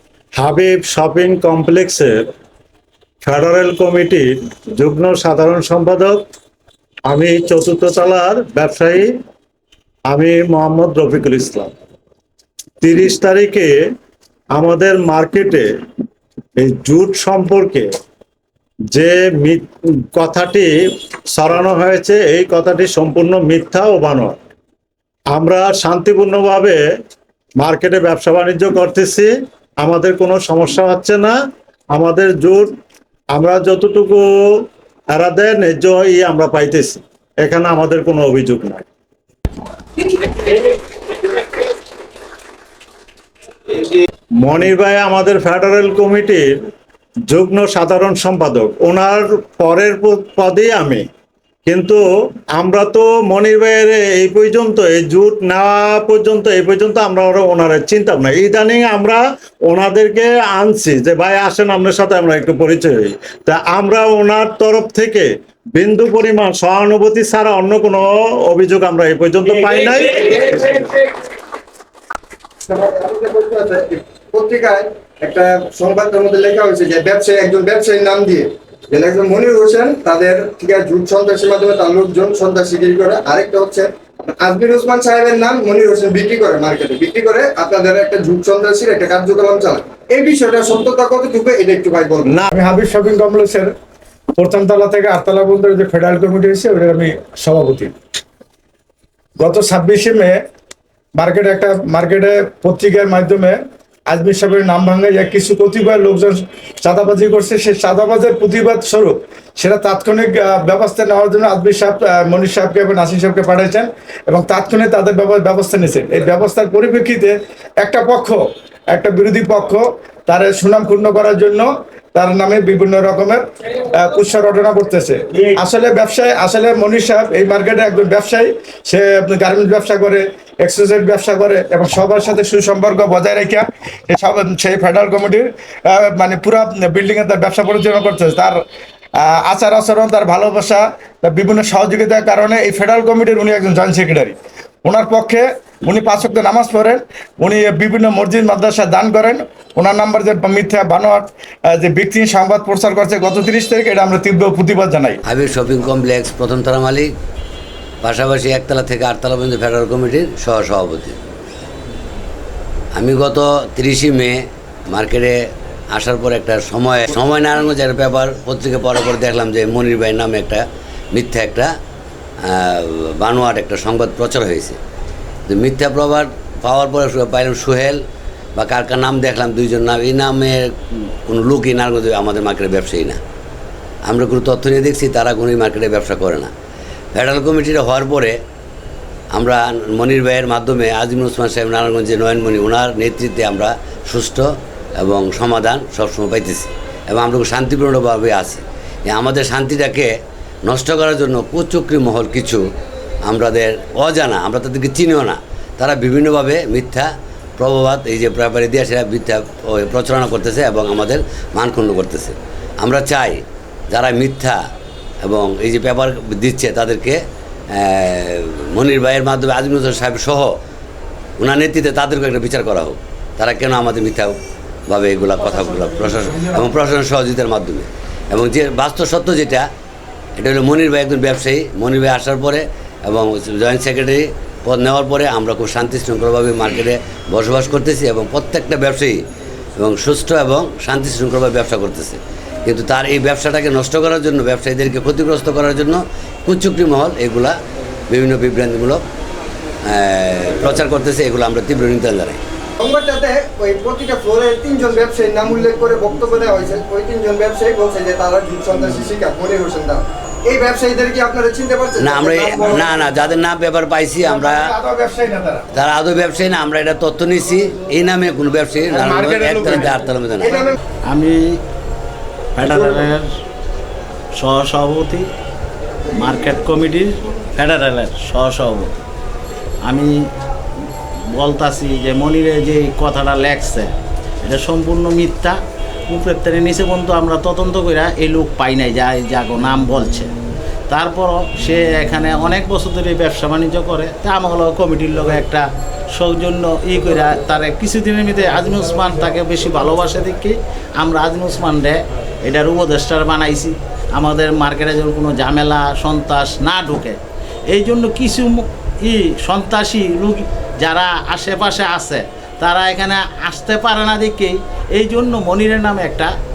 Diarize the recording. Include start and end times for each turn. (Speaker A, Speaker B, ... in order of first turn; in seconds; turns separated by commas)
Speaker A: 0.4-2.2, Speaker A: 3.2-6.2, Speaker A: 7.1-9.1, Speaker A: 10.1-11.7, Speaker A: 12.8-13.8, Speaker A: 14.6-15.7, Speaker A: 16.6-17.9, Speaker A: 18.9-20.7, Speaker A: 21.3-24.4, Speaker A: 25.3-26.8, Speaker A: 27.6-29.3, Speaker A: 29.8-31.3, Speaker A: 31.9-32.7, Speaker A: 33.4-34.3, Speaker A: 35.1-38.8, Speaker A: 44.4-46.5, Speaker A: 47.3-51.1, Speaker A: 51.7-52.0, Speaker A: 52.5-70.7, Speaker B: 72.7-92.3, Speaker C: 92.5-93.7, Speaker C: 94.4-97.9, Speaker C: 99.4-100.4, Speaker C: 101.2-103.6, Speaker C: 104.1-118.4, Speaker C: 118.9-138.6, Speaker C: 139.2-155.2, Speaker D: 155.2-157.1, Speaker D: 158.0-161.2, Speaker D: 162.9-165.4, Speaker D: 165.9-171.7, Speaker D: 172.4-174.8, Speaker D: 175.5-178.0, Speaker D: 178.6-180.7, Speaker D: 181.3-183.2, Speaker D: 184.1-186.5, Speaker D: 187.1-188.4, Speaker D: 189.3-194.5, Speaker D: 195.0-200.1, Speaker D: 200.7-202.6, Speaker D: 203.3-214.6, Speaker D: 215.2-217.2, Speaker D: 217.7-220.5, Speaker D: 221.4-229.7, Speaker D: 230.4-239.2, Speaker D: 239.8-247.6, Speaker D: 248.1-249.0, Speaker D: 249.9-252.4, Speaker B: 252.8-263.1, Speaker D: 262.0-264.7, Speaker C: 264.2-265.7, Speaker D: 265.7-270.7, Speaker C: 268.9-269.9, Speaker B: 270.4-270.8, Speaker E: 271.1-271.6, Speaker E: 272.6-273.2, Speaker B: 272.6-273.1, Speaker E: 274.4-275.3, Speaker E: 276.1-279.0, Speaker E: 279.8-280.3, Speaker E: 281.3-290.3, Speaker E: 290.9-316.4